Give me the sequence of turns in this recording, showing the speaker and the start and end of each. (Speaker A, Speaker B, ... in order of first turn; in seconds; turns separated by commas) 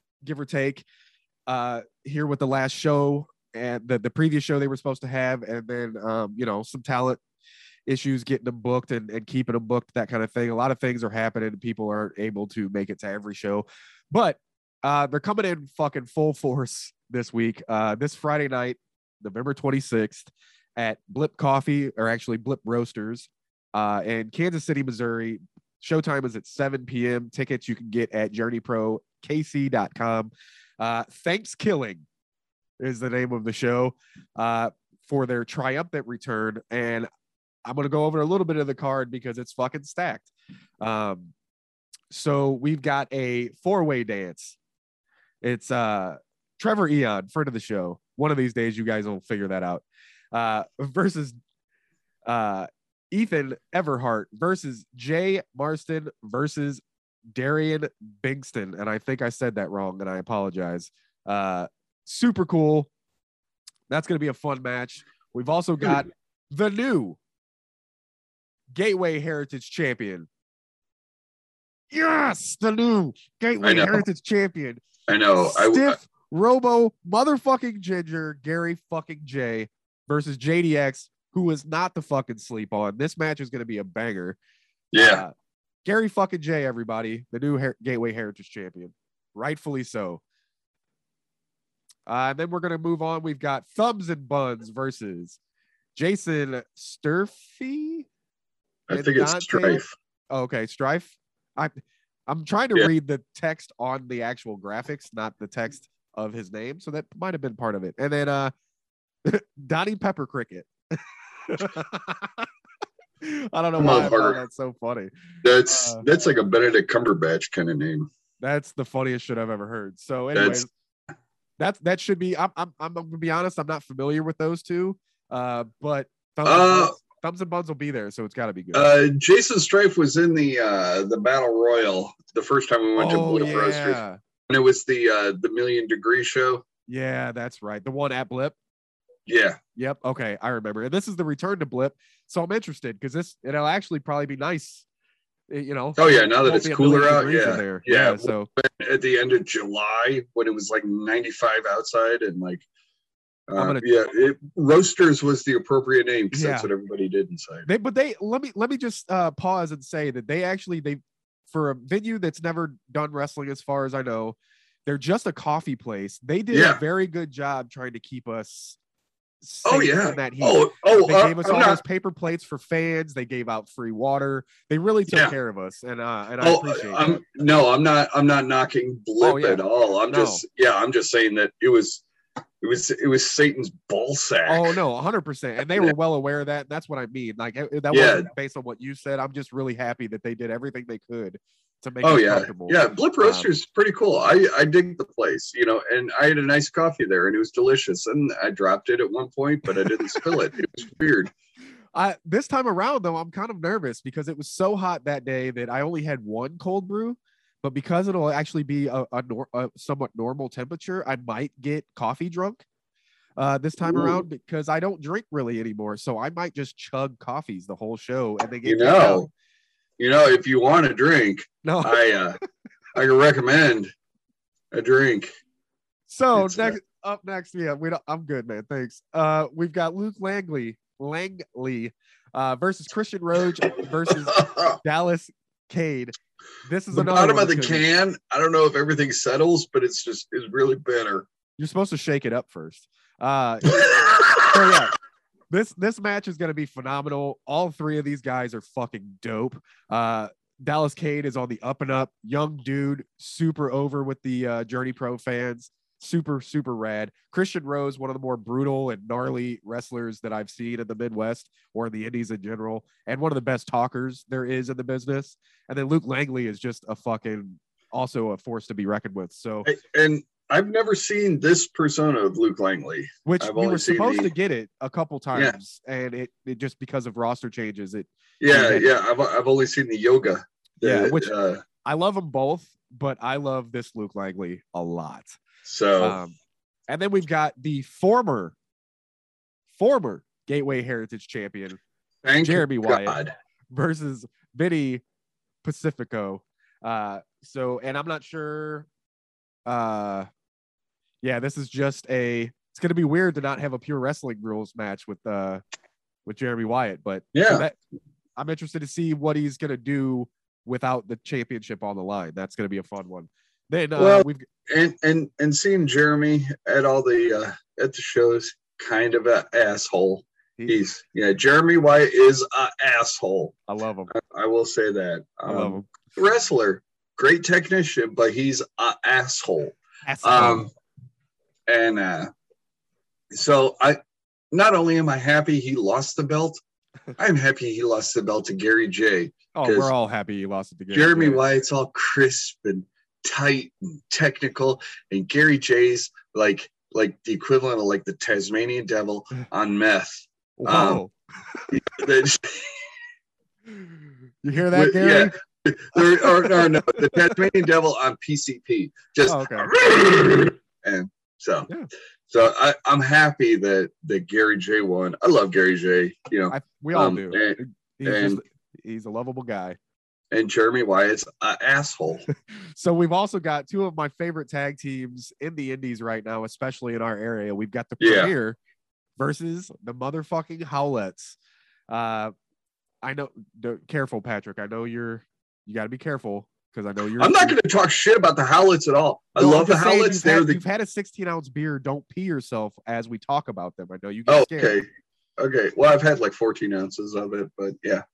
Speaker A: 0.2-0.8, Speaker A: 1.5-7.2, Speaker A: 7.8-32.0, Speaker A: 32.8-37.1, Speaker A: 37.6-41.3, Speaker A: 42.1-44.5, Speaker A: 45.4-51.4, Speaker A: 52.2-62.9, Speaker A: 63.9-67.2, Speaker A: 68.7-70.3, Speaker A: 71.9-74.8, Speaker B: 73.6-74.0, Speaker B: 75.1-76.0, Speaker A: 75.4-84.4, Speaker B: 84.9-85.2, Speaker A: 85.0-85.3, Speaker A: 85.8-90.2, Speaker A: 92.1-95.4, Speaker A: 96.0-98.1, Speaker B: 98.9-99.9, Speaker A: 98.9-108.5, Speaker A: 109.2-112.5, Speaker A: 113.2-115.1, Speaker B: 113.8-114.4, Speaker B: 115.4-118.1, Speaker A: 115.7-116.0, Speaker A: 118.4-120.7, Speaker B: 120.3-120.6, Speaker A: 121.6-128.9, Speaker B: 126.4-127.0, Speaker B: 128.7-136.6, Speaker A: 132.9-134.2, Speaker A: 136.9-138.5, Speaker B: 139.3-139.6, Speaker A: 139.8-144.8, Speaker A: 145.5-148.5, Speaker B: 146.0-152.6, Speaker B: 153.5-157.7, Speaker A: 153.5-153.8, Speaker A: 156.3-156.7, Speaker A: 157.7-168.8, Speaker B: 166.5-166.8, Speaker A: 169.4-177.2, Speaker B: 169.6-171.8, Speaker B: 175.1-175.3, Speaker B: 176.4-182.0, Speaker A: 179.2-180.4, Speaker B: 182.6-184.7, Speaker A: 184.4-193.5, Speaker B: 187.9-188.3, Speaker B: 192.0-201.3, Speaker A: 201.9-212.6, Speaker A: 213.4-219.3, Speaker B: 213.8-214.2, Speaker B: 218.6-219.3, Speaker B: 220.0-222.4, Speaker A: 221.6-222.0, Speaker B: 222.9-223.9, Speaker B: 224.7-225.3, Speaker A: 226.1-237.8, Speaker B: 226.3-226.7, Speaker B: 234.1-234.8, Speaker B: 236.9-241.3, Speaker A: 241.6-243.9, Speaker B: 243.7-244.8, Speaker A: 244.4-244.9, Speaker A: 245.5-269.7, Speaker B: 269.6-274.3, Speaker A: 273.2-278.9, Speaker B: 278.4-281.6, Speaker A: 280.8-285.4, Speaker B: 285.6-286.2, Speaker A: 286.0-286.3, Speaker A: 286.9-288.5, Speaker A: 289.7-291.8, Speaker B: 292.2-293.3, Speaker A: 292.4-293.2, Speaker A: 293.7-295.0, Speaker A: 295.6-298.9, Speaker A: 299.6-300.3, Speaker A: 301.2-305.6, Speaker A: 306.2-307.8, Speaker B: 307.3-307.7, Speaker A: 308.4-314.4, Speaker B: 313.9-323.6, Speaker A: 323.7-324.1, Speaker B: 324.1-330.7, Speaker A: 325.5-325.9, Speaker A: 330.0-330.6, Speaker B: 331.7-332.3, Speaker B: 333.3-334.0, Speaker B: 334.5-336.6, Speaker B: 337.2-339.9, Speaker A: 339.5-341.4, Speaker B: 340.9-351.0, Speaker A: 350.6-351.6, Speaker B: 351.7-352.8, Speaker A: 354.4-355.3, Speaker B: 354.7-361.7, Speaker A: 355.9-357.4, Speaker A: 359.2-359.7, Speaker B: 362.3-368.4, Speaker A: 366.5-369.8, Speaker B: 370.3-372.2, Speaker A: 372.3-378.6, Speaker B: 378.0-378.3, Speaker A: 379.2-381.4, Speaker A: 381.9-382.3, Speaker A: 383.0-387.6, Speaker B: 387.2-390.6, Speaker A: 389.4-394.8, Speaker B: 394.3-398.0